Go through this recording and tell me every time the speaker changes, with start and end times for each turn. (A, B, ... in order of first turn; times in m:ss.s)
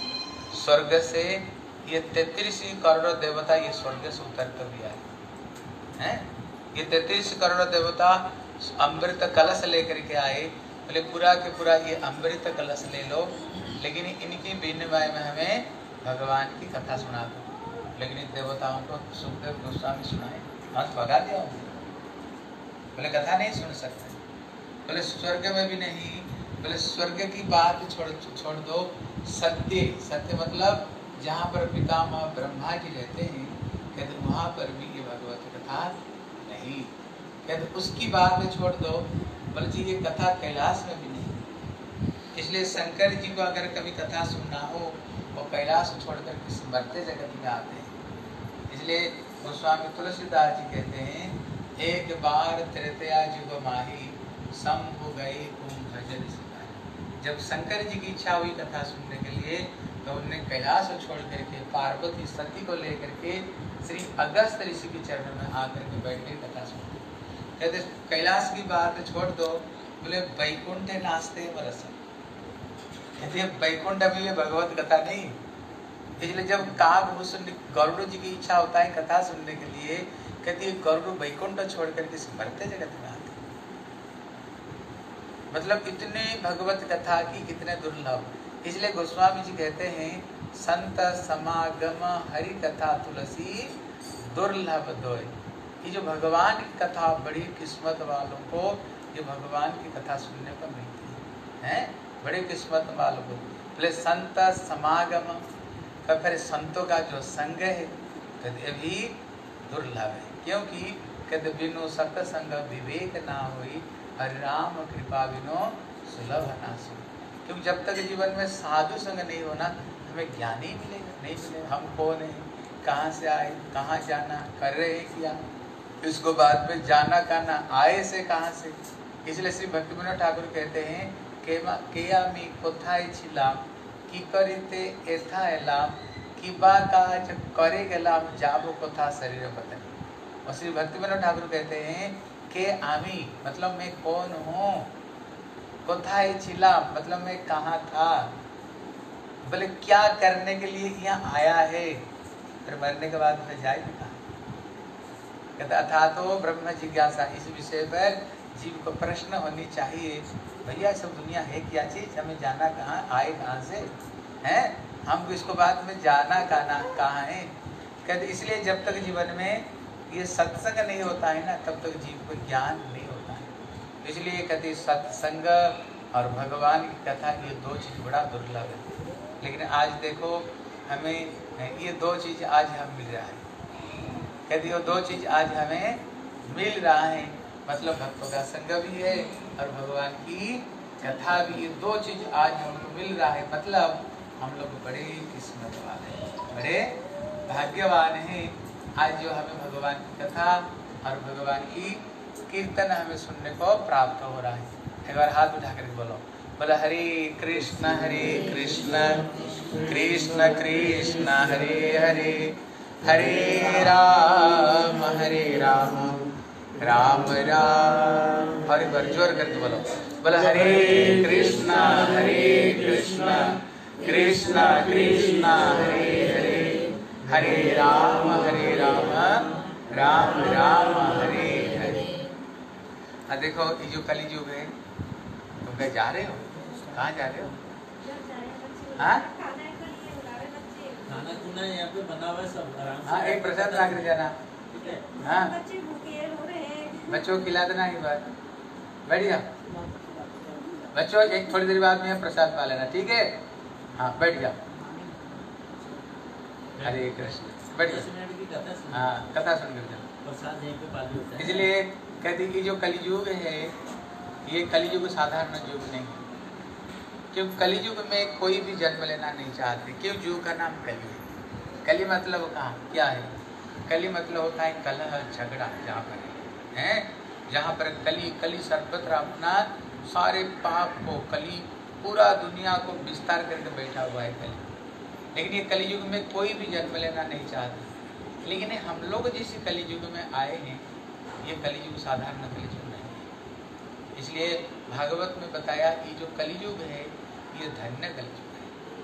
0:00.5-0:05.0 A
0:06.0-0:21.7 A
0:23.0-0:24.2 A
0:24.9-0:36.9 A
0:37.4-0:41.4 A
0:42.3-0:47.9 A
0:48.7-1:07.1 A
1:07.6-1:12.0 A
1:13.2-1:15.4 A
1:16.2-1:23.4 A
1:25.5-1:33.8 A
1:34.3-1:45.5 A
1:46.0-2:05.4 A
2:06.0-2:24.9 A
2:25.8-2:28.4 A
2:29.4-2:32.1 A
2:32.6-2:34.2 A
2:35.6-2:47.5 A
2:48.0-3:03.5 A
3:04.5-3:52.2 A
3:53.3-3:54.7 A
3:55.6-3:57.6 A
3:58.0-4:01.3 B
3:59.0-3:59.3 A
4:01.1-4:04.1 C
4:03.0-4:04.4 A
4:04.7-4:05.0 C
4:05.1-4:07.1 B
4:05.2-4:05.6 A
4:07.1-4:08.3 A
4:09.1-4:09.5 A
4:10.9-4:13.4 A
4:14.0-4:14.6 A
4:16.8-4:17.2 C
4:16.8-4:18.1 A
4:17.8-4:19.2 C
4:18.9-4:20.1 A
4:20.2-4:21.7 C
4:21.4-4:23.8 A
4:24.5-4:26.3 A
4:27.3-4:33.3 A
4:33.9-4:44.7 A
4:45.4-4:50.8 A
4:51.4-4:53.3 A
4:54.2-4:58.7 A